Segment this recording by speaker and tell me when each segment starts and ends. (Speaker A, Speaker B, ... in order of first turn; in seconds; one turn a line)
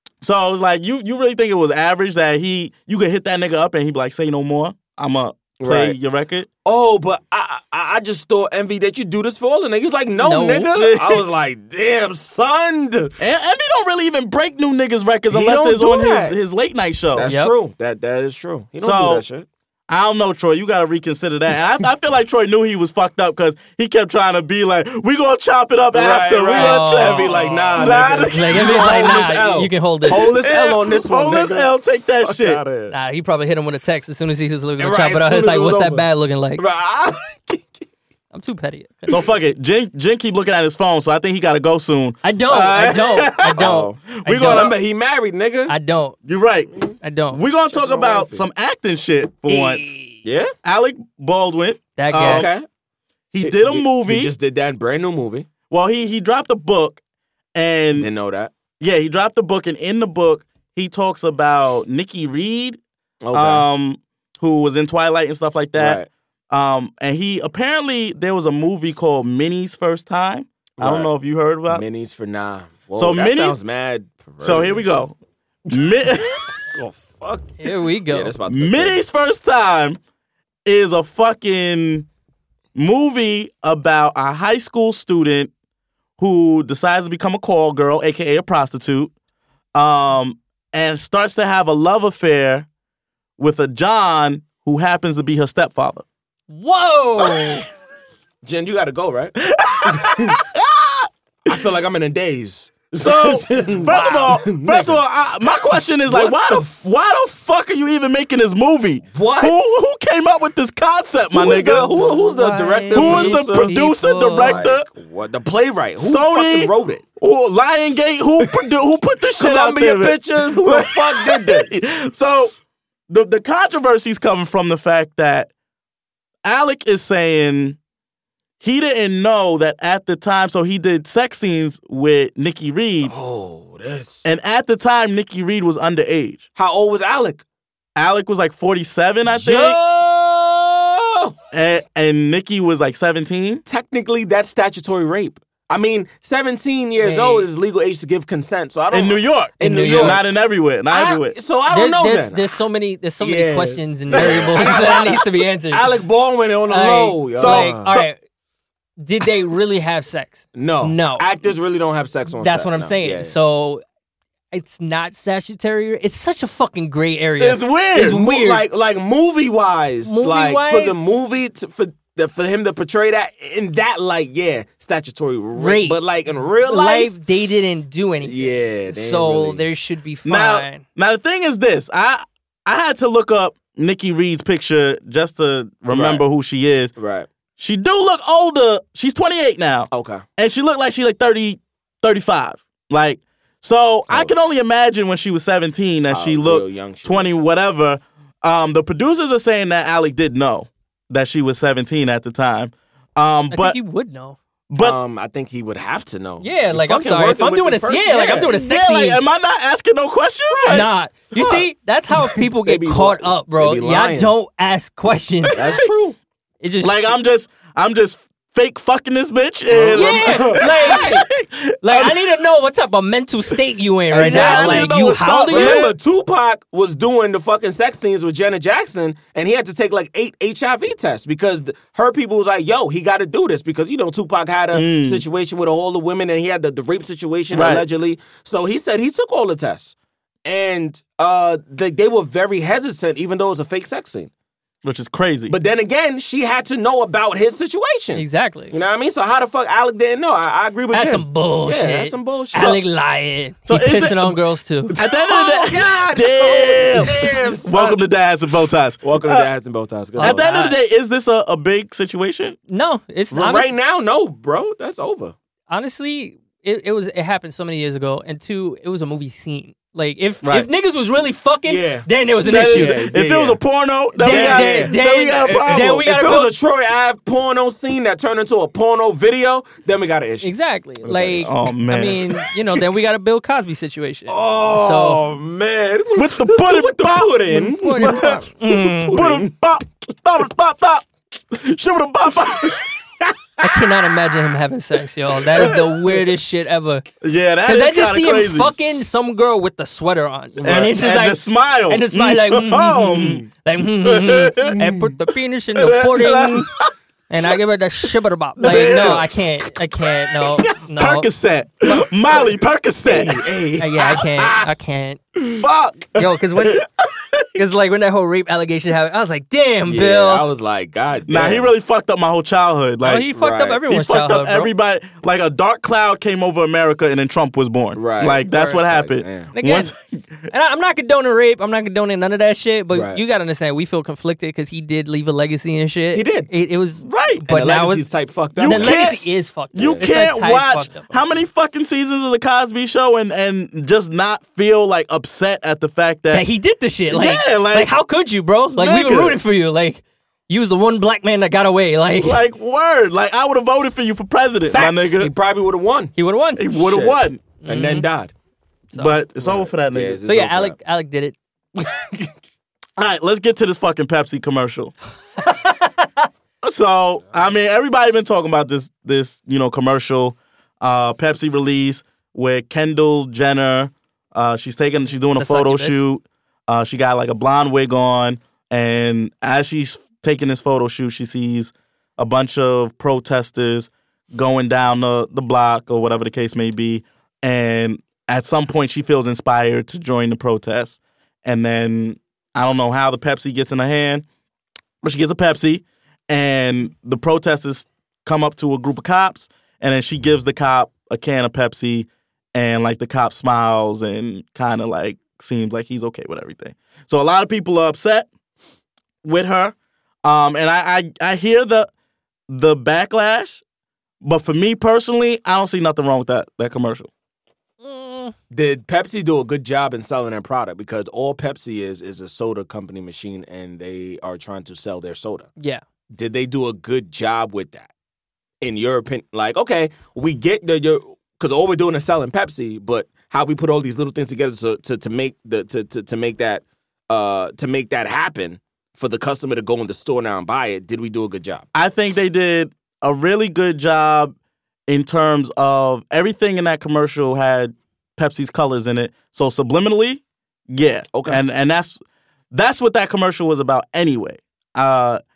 Speaker A: 0.2-6.5
Speaker B: 5.6-6.0
Speaker B: 6.6-13.1
Speaker C: 10.2-10.7
Speaker A: 10.7-11.2
Speaker A: 13.2-17.3
Speaker B: 15.3-16.4
Speaker B: 17.1-19.4
Speaker C: 17.2-17.5
Speaker A: 18.8-19.2
Speaker A: 19.9-29.4
Speaker B: 25.9-32.9
Speaker C: 26.5-30.3
Speaker A: 30.1-32.6
Speaker C: 32.9-36.6
Speaker B: 34.8-37.7
Speaker C: 38.3-39.2
Speaker A: 39.1-44.8
Speaker C: 42.2-44.7
Speaker B: 43.6-45.7
Speaker C: 45.7-46.2
Speaker A: 46.2-46.7
Speaker B: 46.7-47.0
Speaker C: 47.0-47.4
Speaker A: 47.3-50.0
Speaker B: 47.7-48.5
Speaker C: 49.5-50.2
Speaker B: 50.2-50.5
Speaker A: 50.6-52.5
Speaker C: 52.0-52.5
Speaker B: 52.1-52.6
Speaker A: 53.3-54.3
Speaker B: 53.4-55.5
Speaker A: 55.7-57.0
Speaker A: 57.5-58.1
Speaker B: 57.9-58.5
Speaker A: 58.8-62.8
Speaker B: 63.2-63.6
Speaker A: 63.3-71.8
Speaker B: 65.7-66.1
Speaker B: 70.8-71.1
Speaker B: 71.7-74.9
Speaker A: 73.0-73.6
Speaker A: 74.4-75.1
Speaker A: 75.7-76.4
Speaker B: 76.6-79.0
Speaker C: 77.6-78.3
Speaker A: 78.5-80.0
Speaker A: 80.6-82.1
Speaker A: 82.7-85.5
Speaker A: 86.2-89.1
Speaker A: 89.7-92.7
Speaker A: 93.4-96.0
Speaker C: 96.5-97.7
Speaker B: 98.4-100.4
Speaker A: 99.4-101.6
Speaker B: 101.5-106.8
Speaker A: 103.0-111.9
Speaker C: 103.8-104.3
Speaker B: 109.1-109.8
Speaker B: 111.3-113.7
Speaker C: 111.9-114.6
Speaker A: 112.9-114.8
Speaker B: 114.4-117.0
Speaker A: 116.0-122.5
Speaker B: 118.4-118.7
Speaker B: 119.4-121.8
Speaker A: 123.1-125.5
Speaker A: 126.4-127.8
Speaker A: 128.6-133.1
Speaker B: 133.0-134.2
Speaker A: 134.2-136.4
Speaker B: 136.6-137.4
Speaker A: 138.0-139.8
Speaker B: 139.2-141.3
Speaker A: 141.5-143.6
Speaker B: 143.7-150.2
Speaker C: 147.0-147.5
Speaker A: 148.9-151.3
Speaker C: 149.6-150.2
Speaker B: 150.9-152.4
Speaker C: 151.7-155.9
Speaker B: 153.2-157.9
Speaker A: 154.1-154.8
Speaker C: 156.7-158.2
Speaker A: 157.3-158.1
Speaker C: 159.0-161.3
Speaker B: 160.5-163.3
Speaker C: 162.4-163.8
Speaker C: 164.5-168.6
Speaker A: 167.4-168.2
Speaker B: 168.0-177.2
Speaker C: 170.0-171.0
Speaker C: 175.6-176.0
Speaker C: 176.6-180.8
Speaker B: 178.2-179.6
Speaker A: 180.2-186.9
Speaker B: 185.9-186.2
Speaker B: 186.9-187.3
Speaker A: 187.6-203.8
Speaker B: 189.9-190.2
Speaker B: 196.1-197.3
Speaker C: 203.5-204.4
Speaker A: 204.7-205.0
Speaker B: 204.8-208.5
Speaker C: 206.4-209.2
Speaker A: 208.4-210.9
Speaker C: 210.7-215.8
Speaker B: 212.3-214.3
Speaker A: 215.5-215.8
Speaker B: 215.5-216.2
Speaker C: 216.6-217.1
Speaker A: 216.8-222.2
Speaker B: 219.7-221.2
Speaker C: 219.9-221.3
Speaker C: 221.8-225.8
Speaker B: 224.1-244.3
Speaker A: 224.1-225.9
Speaker A: 234.7-235.2
Speaker A: 237.5-237.8
Speaker A: 244.8-245.5
Speaker B: 245.5-252.8
Speaker C: 248.1-248.7
Speaker C: 250.9-254.9
Speaker A: 253.7-254.4
Speaker B: 254.9-258.0
Speaker A: 254.9-259.5
Speaker B: 259.0-260.4
Speaker A: 260.2-262.6
Speaker C: 260.2-260.8
Speaker C: 262.7-263.7
Speaker B: 263.3-265.3
Speaker C: 265.7-273.0
Speaker A: 270.4-270.7
Speaker B: 271.6-273.6
Speaker A: 272.4-276.1
Speaker C: 274.2-276.5
Speaker B: 274.2-280.5
Speaker C: 280.4-285.2
Speaker B: 281.0-281.5
Speaker A: 281.3-282.2
Speaker B: 284.3-289.5
Speaker A: 286.1-288.4
Speaker C: 287.7-289.1
Speaker A: 289.1-292.9
Speaker C: 293.6-297.0
Speaker A: 297.2-298.7
Speaker C: 297.6-306.7
Speaker B: 300.6-300.9
Speaker A: 300.6-303.4
Speaker A: 304.0-304.9
Speaker A: 305.9-306.9
Speaker C: 307.3-311.3
Speaker A: 308.6-309.4
Speaker B: 308.7-309.2
Speaker A: 310.9-313.4
Speaker B: 313.0-314.7
Speaker C: 313.8-315.2
Speaker A: 315.6-317.6
Speaker C: 316.1-316.8
Speaker C: 317.5-320.4
Speaker B: 319.9-321.7
Speaker A: 321.3-323.3
Speaker C: 323.0-324.7
Speaker B: 323.4-323.8
Speaker A: 323.9-330.5
Speaker B: 327.9-329.5
Speaker C: 329.5-329.9
Speaker C: 330.5-338.1
Speaker B: 332.9-333.2
Speaker B: 336.1-336.5
Speaker A: 337.0-337.5
Speaker B: 337.5-339.0
Speaker A: 338.6-339.2
Speaker C: 338.6-341.1
Speaker A: 339.7-346.4
Speaker B: 339.8-340.1
Speaker C: 346.3-352.4
Speaker A: 347.1-347.9
Speaker A: 348.8-349.4
Speaker A: 352.2-355.3
Speaker C: 354.7-355.2
Speaker B: 355.1-356.1
Speaker C: 356.1-356.6
Speaker A: 356.6-357.4
Speaker B: 356.7-358.3
Speaker C: 357.6-358.1
Speaker C: 358.9-359.2
Speaker A: 358.9-360.2
Speaker B: 359.4-360.8
Speaker C: 360.2-361.4
Speaker B: 361.8-362.3
Speaker A: 363.0-364.9
Speaker C: 365.4-366.3
Speaker A: 366.6-394.2
Speaker C: 375.4-376.0
Speaker A: 395.0-408.3
Speaker A: 409.2-411.9
Speaker A: 412.5-413.6
Speaker A: 414.2-417.1
Speaker C: 417.8-418.3
Speaker B: 418.5-425.5
Speaker B: 426.1-427.9
Speaker B: 428.6-441.6
Speaker A: 441.7-444.3
Speaker A: 444.9-452.0
Speaker B: 451.1-451.4
Speaker A: 452.5-455.2